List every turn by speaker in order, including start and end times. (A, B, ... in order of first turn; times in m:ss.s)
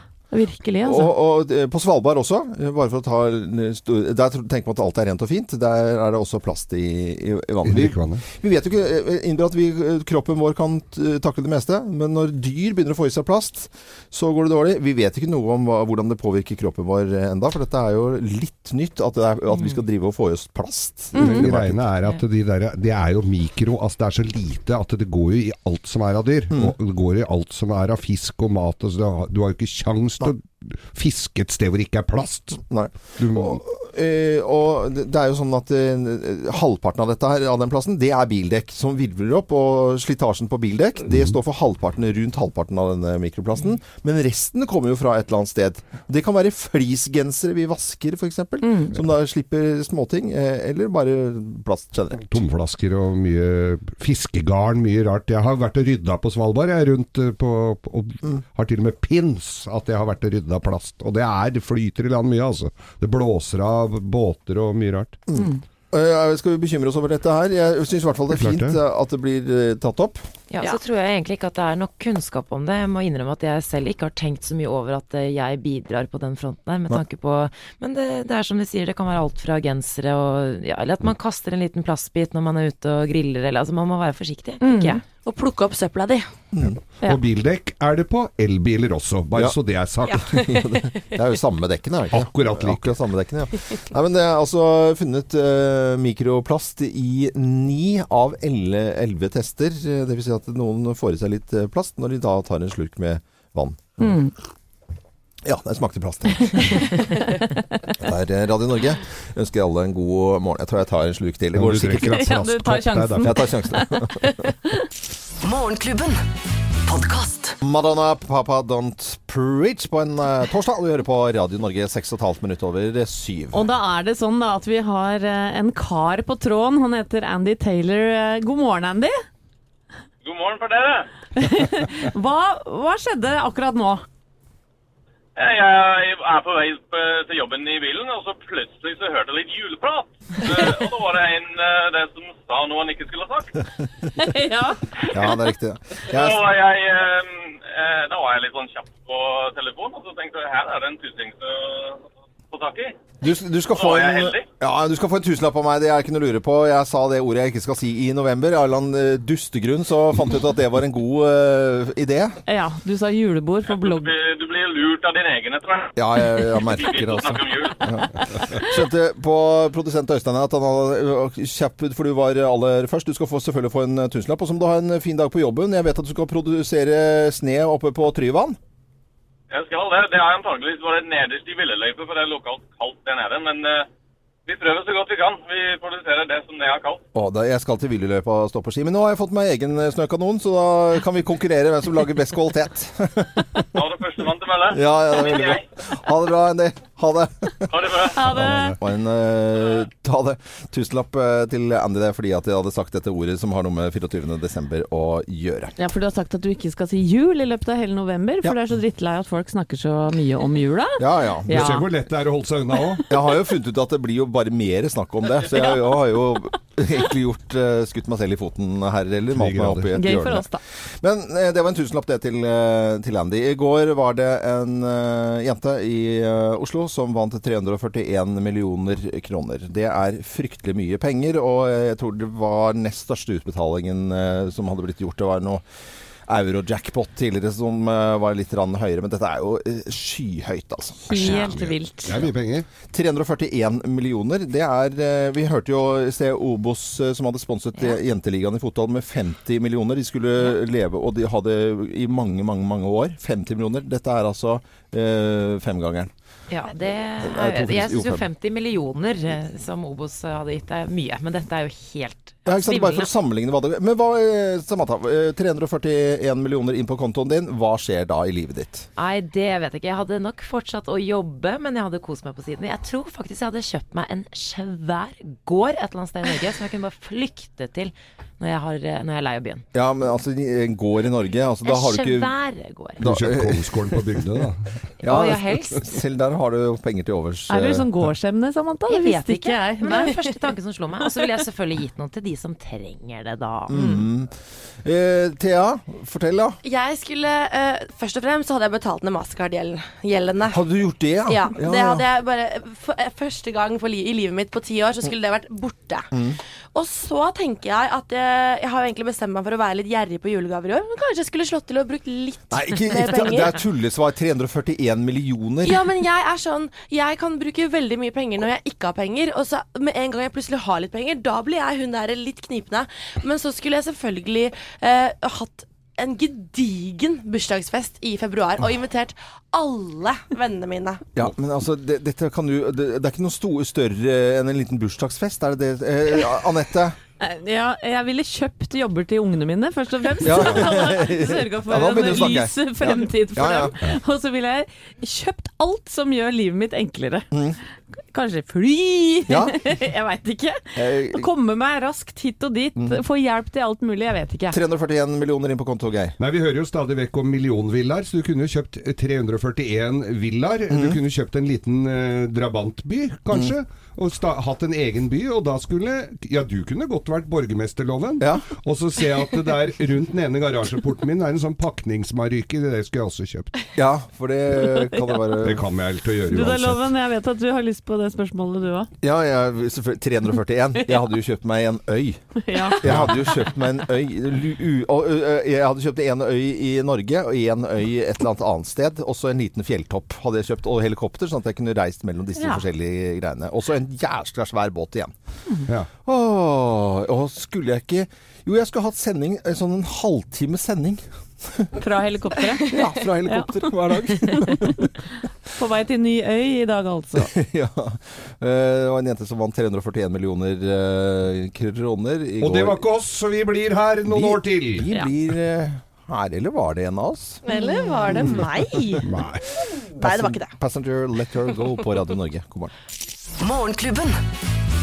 0:00.3-0:01.1 A
0:00.8-0:21.8 B
0:07.6-0:08.2 C
0:19.5-0:19.8 D
0:21.2-0:21.4 A
0:21.2-0:32.6 C
0:32.7-0:52.4 B
0:33.2-0:33.6 C
0:48.6-0:48.9 A
0:52.2-1:05.2 C
1:05.3-1:10.3 B
1:05.3-1:05.6 A
1:08.4-1:08.8 C
1:10.5-1:25.0 D
1:24.6-1:25.0 A
1:25.2-1:26.3 E
1:26.5-1:26.8 B
1:27.0-1:30.4 C
1:30.0-1:31.2 E
1:30.3-1:44.0 B
1:32.1-1:32.9 C
1:44.0-1:44.3 A
1:45.4-1:47.0 B
1:48.0-1:52.2 B
1:51.5-1:53.3 C
1:52.0-1:54.8 A
1:53.2-1:54.5 B
1:57.6-2:03.7 B
2:03.5-2:09.2 A
2:10.2-2:11.1 F
2:11.4-2:14.0 A
2:15.4-2:23.7 F
2:24.2-2:25.2 A
2:25.1-2:26.5 B
2:26.1-2:33.0 F
2:33.2-2:42.4 B
2:33.7-2:34.5 F
2:42.5-2:44.1 A
2:43.7-2:48.0 F
2:46.0-2:58.6 B
2:59.5-3:03.9 F
3:04.4-3:07.0 F
3:07.1-3:13.8 B
3:13.7-3:15.6 F
3:14.7-3:17.9 B
3:17.7-3:18.2 F
3:18.1-3:18.8 A
3:18.3-3:18.8 C
3:18.8-3:25.7 B
3:25.8-3:31.9 A
3:31.0-3:31.8 B
3:31.5-3:33.1 C
3:33.1-3:55.6 B
3:39.3-3:39.9 C
3:39.9-3:40.6 A
3:56.3-4:01.5 B
4:01.0-4:02.2 A
4:01.2-4:02.6 C
4:02.9-4:16.1 B
4:16.5-4:23.1 D
4:17.2-4:18.2 B
4:22.4-4:28.9 B
4:29.0-4:39.6 D
4:39.7-4:42.3 B
4:41.6-4:43.0 D
4:43.0-4:44.8 C
4:43.0-4:44.5 B
4:45.0-4:45.9 D
4:45.0-4:47.9 B
4:47.5-4:50.2 A
4:48.9-4:53.8 D
4:49.8-4:50.2 E
4:53.7-4:56.6 B
4:53.7-4:54.0 A
4:56.6-5:00.6 E
5:00.5-5:02.0 B
5:01.3-5:06.1 E
5:06.1-5:06.4 B
5:06.7-5:13.6 E
5:12.5-5:15.8 B
5:15.6-5:31.1 E
5:31.1-5:37.0 B
5:37.2-5:47.3 A
5:40.2-5:43.7 B
5:40.4-5:40.7 C
5:47.3-5:47.6 B
5:48.1-5:54.6 A
5:49.3-5:49.6 B
5:50.7-5:51.3 B
5:54.5-5:56.1 B
5:56.2-6:13.5 C
6:00.7-6:01.0 B
6:08.2-6:08.5 B
6:13.7-6:15.7 B
6:15.4-6:16.8 C
6:16.3-6:18.9 A
6:19.0-6:35.1 B
6:22.4-6:22.8 A
6:22.8-6:23.2 C
6:32.4-6:32.6 A
6:36.0-6:41.7 B
6:41.8-6:42.7 A
6:42.5-6:42.9 E
6:42.7-6:44.9 B
6:43.2-6:43.6 A
6:44.2-6:44.8 A
6:45.6-6:47.3 A
6:47.2-6:52.8 B
6:52.4-6:54.8 C
6:54.0-6:57.4 B
6:57.4-7:00.5 E
6:57.5-6:58.1 A
6:58.2-6:58.5 B
6:59.0-6:59.5 C
7:00.0-7:02.7 B